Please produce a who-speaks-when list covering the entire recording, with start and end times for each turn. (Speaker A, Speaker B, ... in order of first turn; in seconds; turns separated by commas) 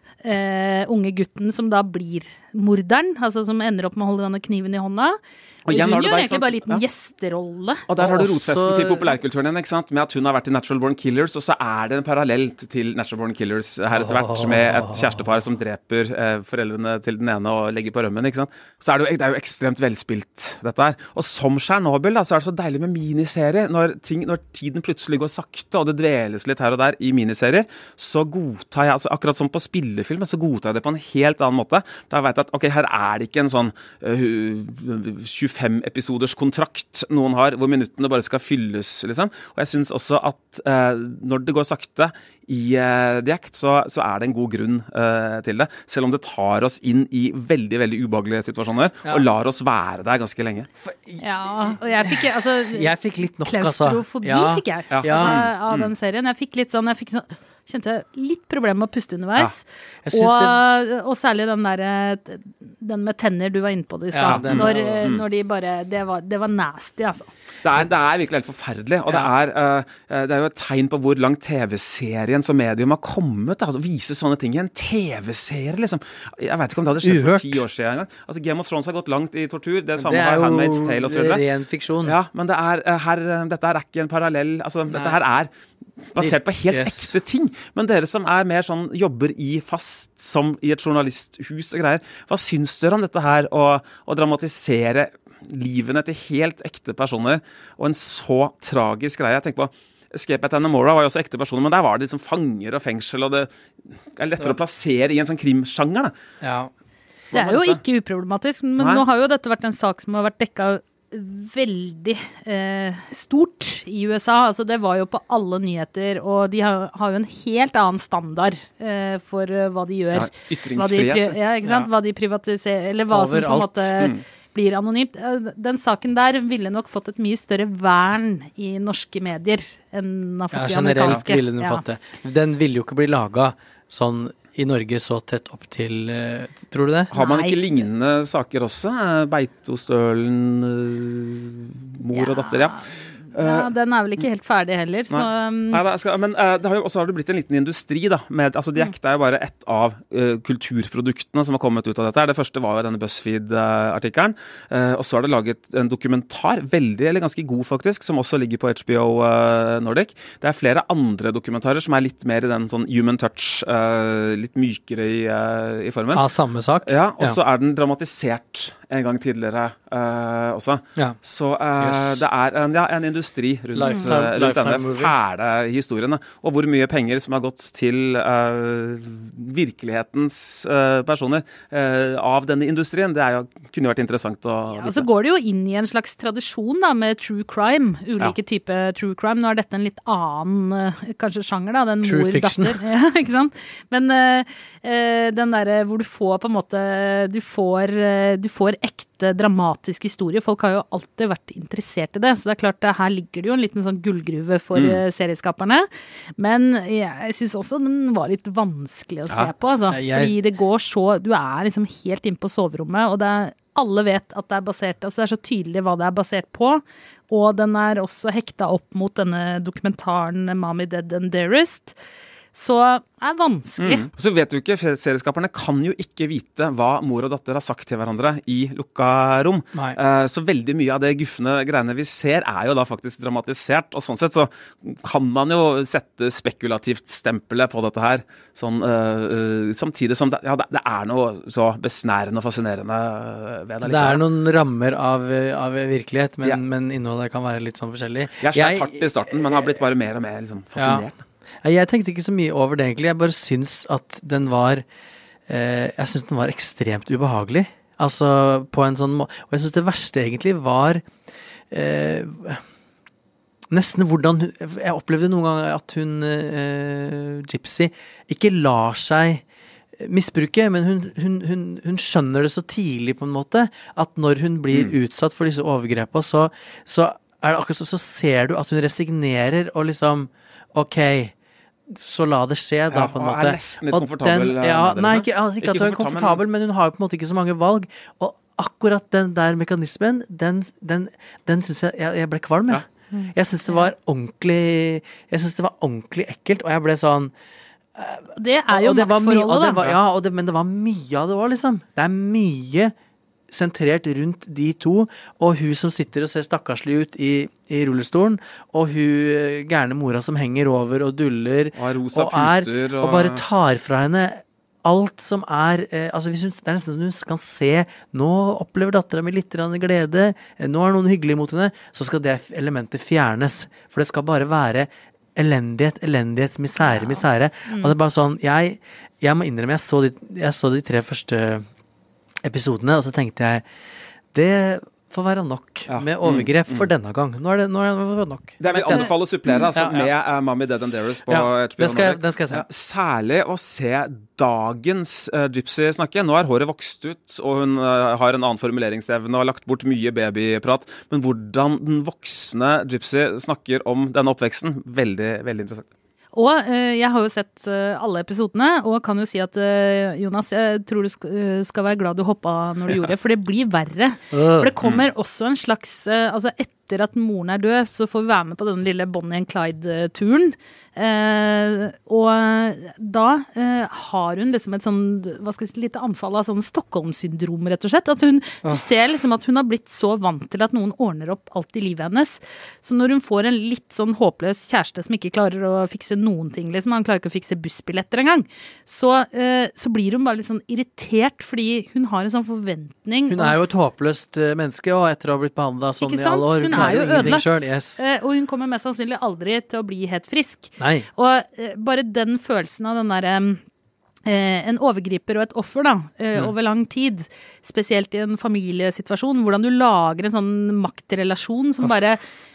Speaker A: 0.2-7.8, Speaker B: 5.7-6.8, Speaker B: 7.9-50.7, Speaker C: 8.0-9.2, Speaker C: 13.9-15.3, Speaker C: 50.8-55.5, Speaker A: 51.2-52.9, Speaker A: 53.5-67.3, Speaker B: 54.9-55.9, Speaker C: 60.0-60.6, Speaker C: 64.1-65.1, Speaker B: 64.3-65.2, Speaker B: 67.6-81.4, Speaker C: 77.0-77.6, Speaker C: 80.0-82.2, Speaker B: 82.0-85.5, Speaker C: 84.9-85.2, Speaker B: 86.1-103.5, Speaker C: 86.2-87.2, Speaker B: 104.2-106.1, Speaker C: 106.4-106.7, Speaker B: 107.3-107.8, Speaker A: 107.3-131.8, Speaker B: 108.8-109.0, Speaker B: 120.1-121.4, Speaker C: 121.7-121.9, Speaker C: 123.1-123.9, Speaker C: 130.5-137.1, Speaker A: 137.1-137.6, Speaker B: 137.1-142.8, Speaker A: 142.1-142.8, Speaker B: 143.3-143.7, Speaker A: 143.3-145.8, Speaker B: 145.1-166.2, Speaker C: 166.1-167.4, Speaker B: 166.8-185.1, Speaker C: 171.8-172.3, Speaker C: 173.8-175.2, Speaker A: 173.8-174.1, Speaker A: 184.7-222.0, Speaker C: 192.0-192.8, Speaker B: 204.8-205.0, Speaker C: 209.9-210.4, Speaker A: 222.5-224.1, Speaker B: 223.8-244.2, Speaker C: 243.8-249.7, Speaker B: 248.4-251.2, Speaker C: 250.8-251.1, Speaker C: 251.6-254.8, Speaker C: 255.5-261.1, Speaker C: 261.7-262.6, Speaker C: 263.7-269.4, Speaker C: 270.0-281.3, Speaker C: 281.9-297.3, Speaker B: 282.9-286.4, Speaker A: 293.1-293.9, Speaker C: 298.0-302.9, Speaker A: 298.4-299.8, Speaker C: 303.5-331.7, Speaker B: 311.8-313.4, Speaker A: 326.8-328.0, Speaker C: 332.4-333.7, Speaker C: 334.3-339.1, Speaker B: 335.9-336.9, Speaker B: 338.6-355.9, Speaker C: 339.7-340.1, Speaker C: 341.3-342.7, Speaker A: 356.4-393.6, Speaker C: 364.3-364.7, Speaker B: 364.8-365.1, Speaker C: 393.3-398.0, Speaker A: 396.0-403.6, Speaker B: 396.7-397.3, Speaker C: 400.8-401.1, Speaker A: 404.3-412.2